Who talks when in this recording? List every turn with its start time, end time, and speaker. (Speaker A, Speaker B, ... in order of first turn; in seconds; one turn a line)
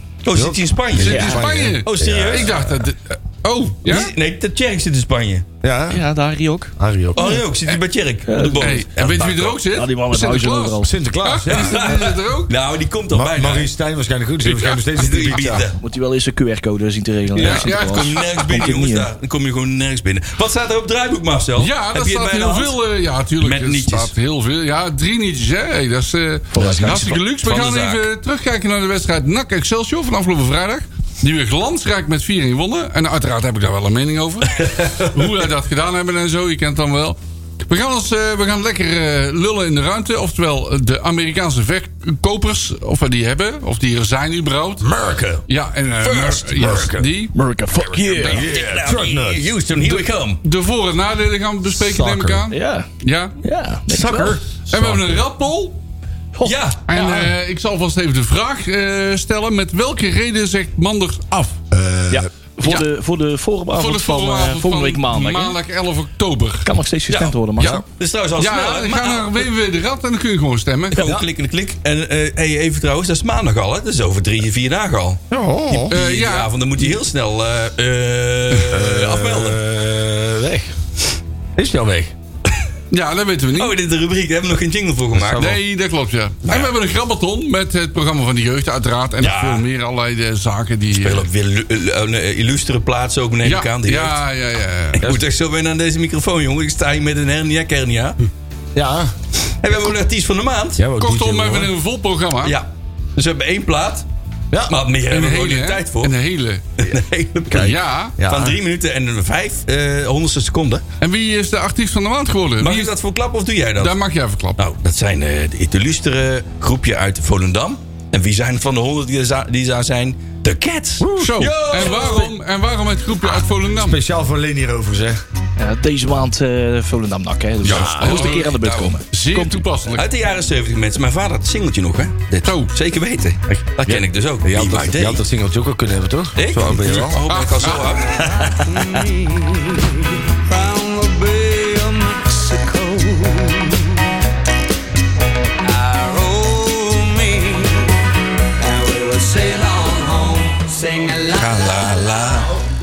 Speaker A: 0.2-2.5
Speaker B: 0.3-2.8
Speaker C: 1.0-4.1
Speaker D: 1.1-1.4
Speaker A: 3.9-5.5
Speaker B: 5.6-6.0
Speaker D: 5.9-7.4
Speaker B: 6.8-7.4
Speaker A: 7.1-9.6
Speaker D: 8.2-8.7
Speaker C: 8.6-12.5
Speaker D: 9.7-10.9
Speaker B: 10.8-12.0
Speaker A: 11.5-13.7
Speaker B: 13.1-15.7
Speaker A: 14.4-15.8
Speaker D: 15.8-19.1
Speaker C: 17.4-18.2
Speaker A: 17.4-22.8
Speaker C: 21.6-44.9
Speaker A: 23.4-24.1
Speaker B: 26.5-27.2
Speaker A: 26.6-28.0
Speaker B: 44.8-45.4
Speaker C: 45.5-47.3
Speaker A: 46.0-46.7
Speaker B: 46.4-47.1
Speaker D: 47.3-48.4
Speaker C: 48.0-48.5
Speaker B: 48.2-50.0
Speaker A: 48.3-50.4
Speaker C: 50.4-53.4
Speaker B: 51.7-52.4
Speaker D: 52.5-52.9
Speaker D: 53.4-54.4
Speaker B: 53.9-55.0
Speaker C: 54.7-55.8
Speaker D: 56.3-57.2
Speaker A: 56.4-56.9
Speaker C: 56.9-61.6
Speaker B: 61.7-62.3
Speaker D: 62.1-65.5
Speaker C: 63.7-66.7
Speaker D: 66.6-67.8
Speaker A: 67.1-69.4
Speaker C: 68.4-71.0
Speaker A: 70.9-75.2
Speaker B: 71.0-71.2
Speaker B: 75.3-75.9
Speaker A: 75.7-79.6
Speaker C: 75.9-76.5
Speaker B: 78.7-80.7
Speaker B: 81.5-82.1
Speaker C: 82.9-83.8
Speaker A: 83.5-85.5
Speaker B: 85.1-85.6
Speaker C: 85.3-91.3
Speaker A: 86.4-86.7
Speaker A: 89.2-89.6
Speaker A: 90.9-94.2
Speaker C: 93.4-95.0
Speaker A: 94.9-98.2
Speaker B: 95.0-95.3
Speaker B: 98.7-99.1
Speaker A: 99.6-100.8
Speaker B: 100.8-101.7
Speaker C: 101.0-102.5
Speaker A: 102.4-104.0
Speaker A: 104.7-106.1
Speaker C: 105.0-106.6
Speaker A: 106.8-110.8
Speaker B: 107.5-108.6
Speaker C: 107.5-108.2
Speaker C: 111.0-112.9
Speaker A: 112.6-113.9
Speaker C: 113.8-114.6
Speaker A: 114.6-122.3
Speaker B: 121.0-121.5
Speaker C: 121.2-124.0
Speaker B: 123.7-125.2
Speaker D: 125.6-129.6
Speaker B: 127.6-128.3
Speaker C: 127.7-128.5
Speaker A: 127.7-129.0
Speaker C: 129.1-130.1
Speaker A: 129.9-135.2
Speaker C: 132.4-132.7
Speaker B: 133.5-137.2
Speaker A: 136.3-138.2
Speaker C: 136.8-138.0
Speaker E: 138.2-144.0
Speaker E: 145.6-147.9
Speaker E: 148.6-152.5
Speaker A: 151.3-152.5